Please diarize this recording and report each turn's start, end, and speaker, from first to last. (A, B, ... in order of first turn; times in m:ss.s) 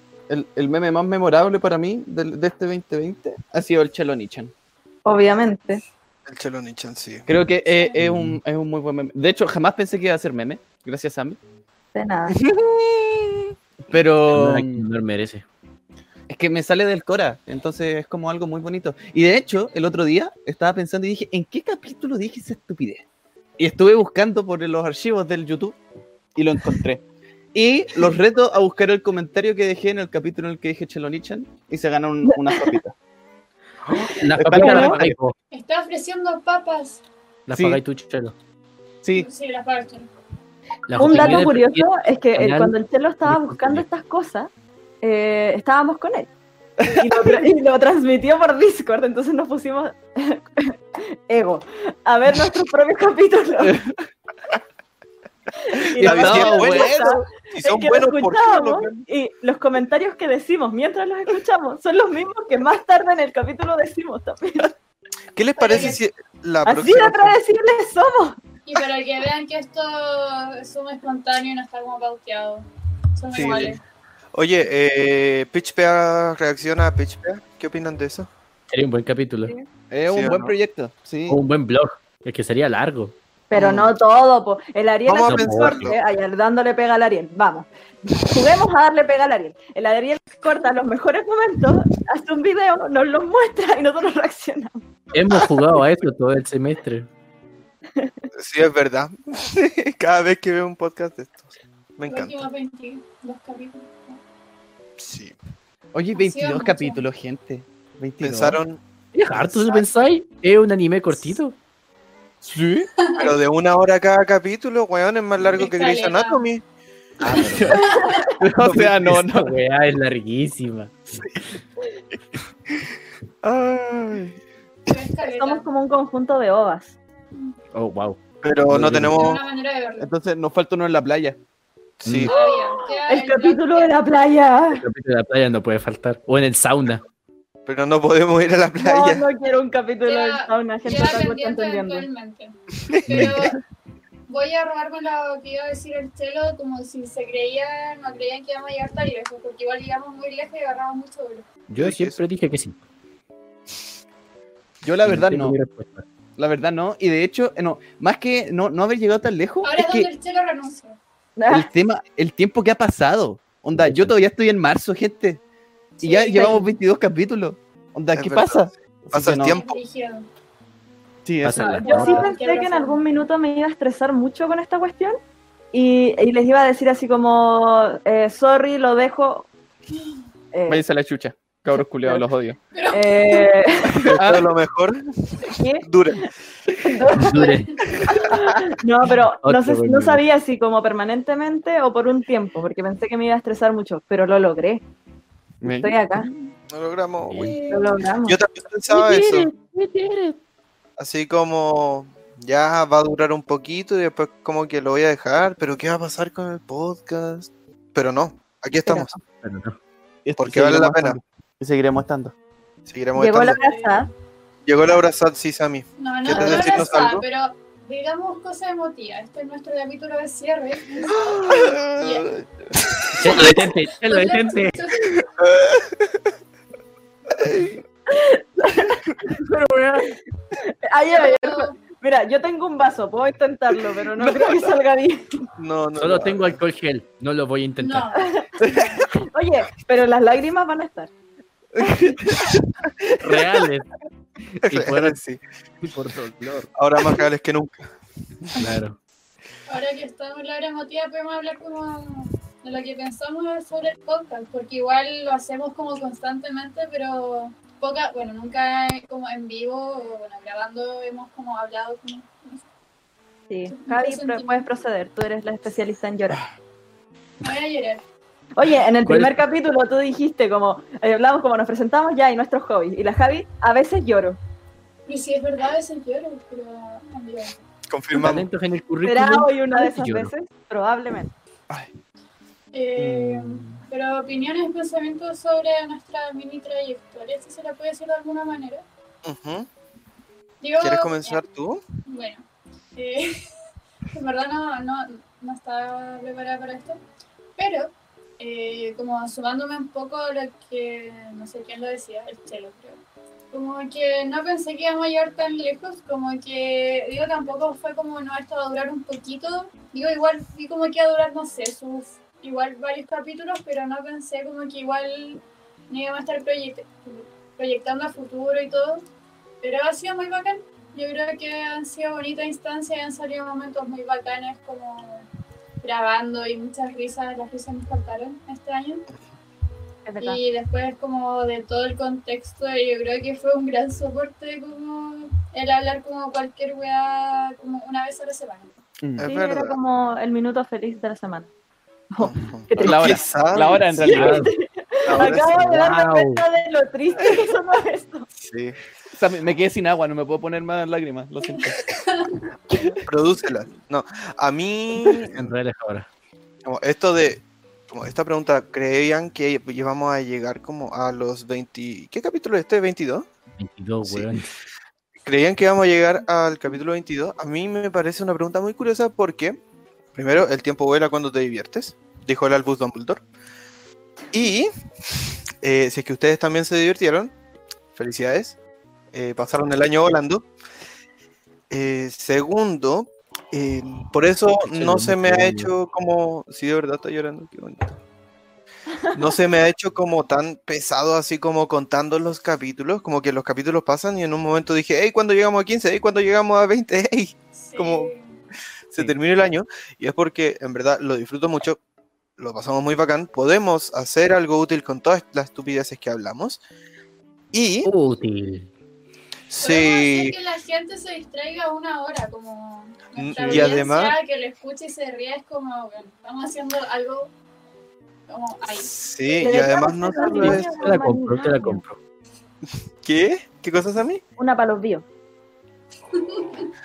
0:00.3-0:04.5 A
0:05.0-0:05.8 B
0:06.3-0:07.3 C
0:07.3-0:11.4 A
0:08.0-0:08.4 D
0:12.0-0:12.4 B
0:12.4-0:13.3 C
0:13.9-0:14.8 A
0:14.3-0:15.4 D
0:16.3-0:23.0 A
0:23.6-0:25.8 A
0:26.4-0:32.9 A
0:32.3-0:32.8 B
0:34.0-0:35.2 A
0:34.1-0:35.3 D
0:34.6-0:35.0 B
0:35.5-0:37.0 E
0:37.5-0:38.4 D
0:37.5-0:37.8 A
0:39.1-0:40.1 E
0:40.9-0:43.8 D
0:41.0-0:44.5 B
0:45.0-0:46.3 B
0:46.8-0:47.5 A
0:46.9-0:53.8 B
0:53.6-0:54.0 A
0:55.7-1:04.7 B
0:55.9-0:57.3 A
0:56.0-0:56.9 C
0:57.5-0:59.0 C
1:05.4-1:07.4 C
1:05.6-1:06.0 E
1:06.6-1:08.4 B
1:08.7-1:13.8 E
1:13.3-1:13.8 C
1:14.3-1:18.3 C
1:18.7-1:19.5 D
1:19.9-1:21.4 A
1:20.1-1:20.5 C
1:21.3-1:23.2 D
1:23.5-1:27.7 B
1:23.5-1:23.9 C
1:25.1-1:26.0 C
1:25.2-1:25.8 D
1:28.2-1:34.8 B
1:35.1-1:37.1 D
1:38.0-1:38.3 B
1:38.3-1:42.5 C
1:42.1-1:44.2 E
1:45.0-1:45.4 C
1:45.9-1:48.6 A
1:46.2-1:47.0 E
1:48.2-1:48.8 C
1:49.1-1:51.6 D
1:49.3-1:49.9 C
1:52.4-1:52.9 A
1:53.0-1:53.4 E
1:53.2-1:56.6 C
1:55.6-1:56.5 E
1:57.2-1:57.8 D
1:57.7-1:58.3 E
1:57.7-1:58.2 B
1:58.4-1:59.5 A
1:58.6-2:01.3 D
2:03.4-2:04.4 C
2:04.9-2:05.7 E
2:05.3-2:07.0 B
2:07.7-2:09.2 D
2:08.4-2:09.4 C
2:09.1-2:10.1 E
2:10.0-2:11.4 A
2:12.0-2:12.3 C
2:12.0-2:12.3 D
2:12.3-2:14.0 E
2:12.3-2:14.8 B
2:14.7-2:17.0 D
2:17.7-2:19.3 C
2:18.8-2:22.1 B
2:20.0-2:23.6 E
2:22.9-2:23.6 C
2:24.3-2:31.5 E
2:31.7-2:32.8 D
2:31.8-2:32.2 C
2:34.8-2:35.6 A
2:35.0-2:36.0 D
2:36.4-2:40.1 A
2:39.6-2:41.0 E
2:41.4-2:41.7 B
2:41.5-2:45.4 A
2:43.8-2:44.1 D
2:46.0-2:46.7 B
2:46.0-2:49.6 A
2:48.1-2:49.8 C
2:49.4-2:50.3 E
2:51.2-2:52.3 A
2:51.4-2:52.3 D
2:51.8-2:53.0 E
2:51.8-2:55.2 B
2:55.7-2:59.5 B
3:00.5-3:00.8 B
3:00.7-3:02.6 A
3:02.7-3:03.6 E
3:02.9-3:04.2 B
3:04.1-3:06.3 C
3:05.5-3:05.9 B
3:06.8-3:14.8 B
3:07.1-3:07.7 D
3:09.4-3:10.2 D
3:15.6-3:16.0 A
3:15.7-3:16.3 B
3:16.7-3:17.6 C
3:17.2-3:17.6 D
3:17.4-3:17.8 E
3:17.7-3:18.4 B
3:18.2-3:19.5 C
3:18.9-3:20.4 D
3:21.0-3:29.1 C
3:28.9-3:29.2 B
3:29.4-3:29.8 D
3:30.2-3:32.3 A
3:30.4-3:31.2 C
3:32.9-3:33.6 C
3:33.2-3:34.1 B
3:33.6-3:34.0 E
3:34.7-3:37.2 C
3:36.0-3:42.3 E
3:36.4-3:36.6 B
3:41.5-3:42.4 A
3:43.2-3:44.8 D
3:43.4-3:45.2 E
3:45.4-3:46.2 C
3:48.1-3:49.0 B
3:49.3-3:50.2 D
3:50.7-3:55.5 B
3:51.1-3:51.8 E
3:54.2-3:54.7 A
3:55.6-3:56.6 C
3:56.0-3:58.1 D
3:57.8-3:59.1 E
3:58.1-4:01.1 B
3:58.6-3:59.0 A
4:01.8-4:02.6 A
4:01.8-4:02.2 B
4:03.2-4:03.9 D
4:04.6-4:05.2 D
4:04.6-4:05.4 C
4:05.8-4:06.7 D
4:06.8-4:07.9 C
4:08.6-4:09.0 D
4:09.7-4:22.6 E
4:23.5-4:26.4 B
4:23.7-4:24.6 E
4:27.4-4:28.0 E
4:28.6-4:34.4 B
4:29.0-4:29.4 D
4:35.1-4:37.6 E
4:37.9-4:38.5 C
4:38.2-4:40.3 D
4:39.0-4:41.3 B
4:42.7-4:48.8 E
4:43.0-4:43.8 A
4:49.2-4:49.7 C
4:50.6-4:51.4 E
4:50.8-4:51.8 C
4:52.1-4:53.4 E
4:54.1-4:57.0 E
4:57.6-5:03.0 E
5:03.5-5:19.0 E
5:19.6-5:25.3 E
5:25.8-5:29.1 E
5:30.1-5:30.4 B
5:30.2-5:38.7 E
5:39.0-5:39.3 A
5:39.2-5:39.8 C
5:39.2-5:41.5 B
5:42.1-5:43.1 B
5:42.2-5:44.0 C
5:42.8-5:44.5 A
5:44.0-5:48.3 B
5:44.1-5:44.5 D
5:45.1-5:45.7 C
5:45.5-5:46.4 D
5:48.4-5:48.8 C
5:49.1-5:51.9 A
5:51.4-5:52.4 E
5:53.1-5:55.5 C
5:55.3-5:56.1 D
5:56.7-6:03.3 C
6:03.6-6:04.5 D
6:04.0-6:04.3 C
6:05.2-6:09.6 C
6:10.2-6:13.2 C
6:14.3-6:14.7 C
6:15.6-6:17.3 C
6:18.0-6:18.6 C
6:19.1-6:20.5 C
6:21.7-6:28.0 C
6:24.7-6:25.7 D
6:29.1-6:38.1 C
6:37.6-6:38.3 E
6:38.9-6:41.8 C
6:42.4-6:46.6 C
6:47.5-6:47.9 C
6:47.8-6:48.7 D
6:49.5-6:50.3 C
6:49.6-6:57.3 E
6:53.2-6:54.2 C
6:58.3-6:58.9 E
6:58.7-7:01.0 C
6:59.4-7:01.8 B
7:00.3-7:02.0 D
7:03.0-7:04.2 C
7:04.4-7:05.0 B
7:06.1-7:06.7 E